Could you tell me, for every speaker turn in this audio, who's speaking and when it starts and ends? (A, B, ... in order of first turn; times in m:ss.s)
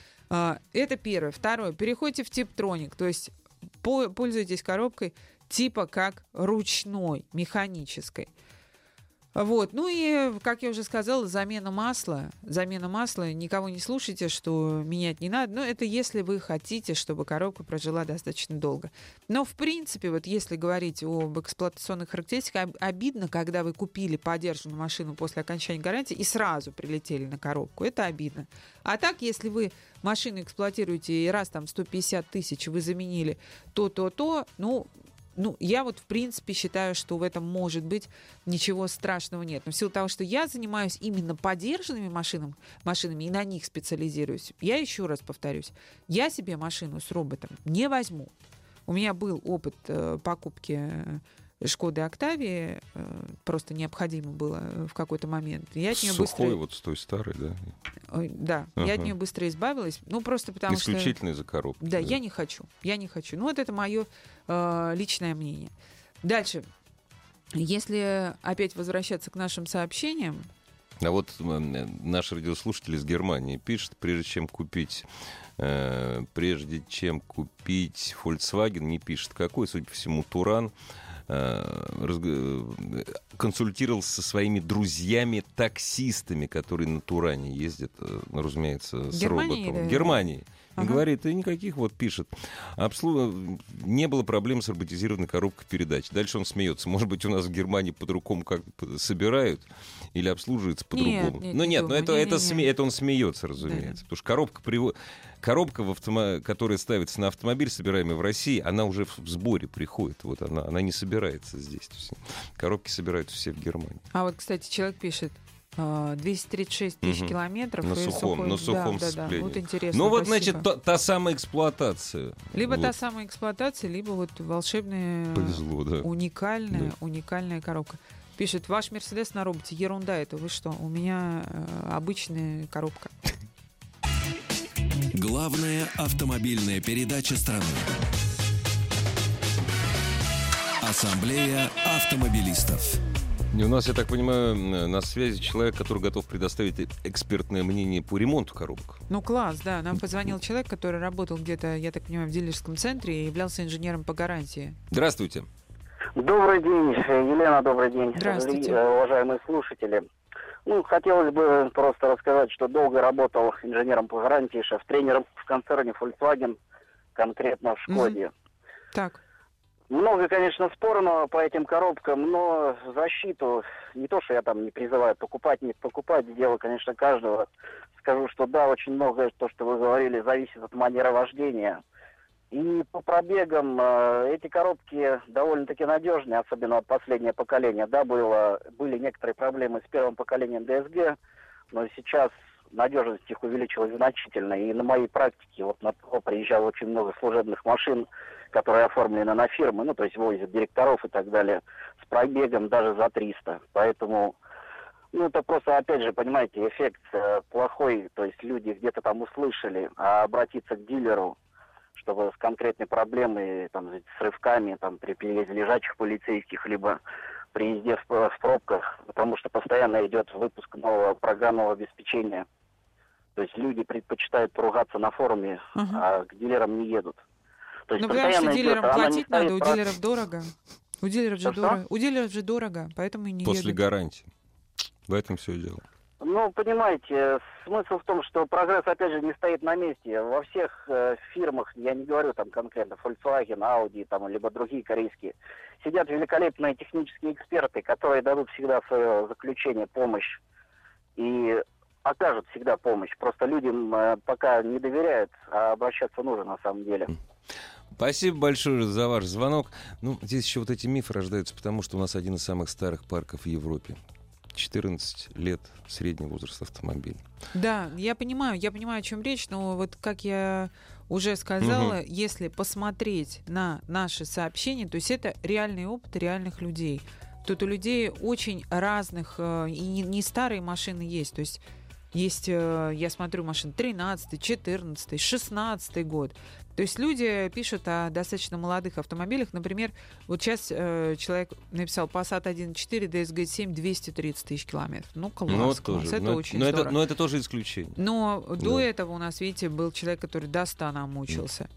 0:00.3-0:08.3 A
0:09.4-0:48.3 A
0:48.9-0:56.6 A
0:55.9-0:57.7 B
0:58.1-1:01.2 A
0:58.8-0:59.1 B
1:00.7-1:02.2 B
1:01.8-1:05.7 A
1:06.2-1:06.7 A
1:07.5-1:10.5 A
1:11.0-1:15.1 B
1:15.6-1:20.7 B
1:21.3-1:54.0 B
1:29.1-1:31.0 A
1:40.9-1:42.7 A
1:43.6-1:44.0 A
1:54.1-2:00.6 A
1:57.0-2:02.9 B
2:02.5-2:13.1 A
2:05.3-2:06.1 B
2:15.1-2:17.9 C
2:20.8-2:23.0 C
2:23.5-2:29.0 B
2:29.1-2:34.8 A
2:34.9-2:35.5 B
2:36.2-2:40.1 D
2:38.2-2:38.8 A
2:40.6-2:46.6 D
2:47.2-2:48.3 D
2:47.9-2:48.2 A
2:48.9-2:49.2 A
2:49.9-2:57.5 D
2:58.0-3:01.8 D
3:02.5-3:11.2 D
3:11.7-3:24.4 D
3:25.1-3:31.4 D
3:32.0-3:37.0 D
3:37.5-3:42.5 D
3:43.4-3:47.2 D
3:45.8-3:46.0 A
3:47.9-3:49.8 D
3:48.0-3:53.8 A
3:51.4-3:51.8 D
3:53.4-3:54.3 B
3:55.1-3:55.8 B
3:56.2-4:10.4 D
4:11.2-4:17.1 D
4:18.0-4:24.0 B
4:24.5-4:27.2 B
4:27.5-4:41.6 A
4:31.6-4:32.0 B
4:42.1-4:57.0 A
4:55.5-4:58.0 B
4:58.0-5:01.7 A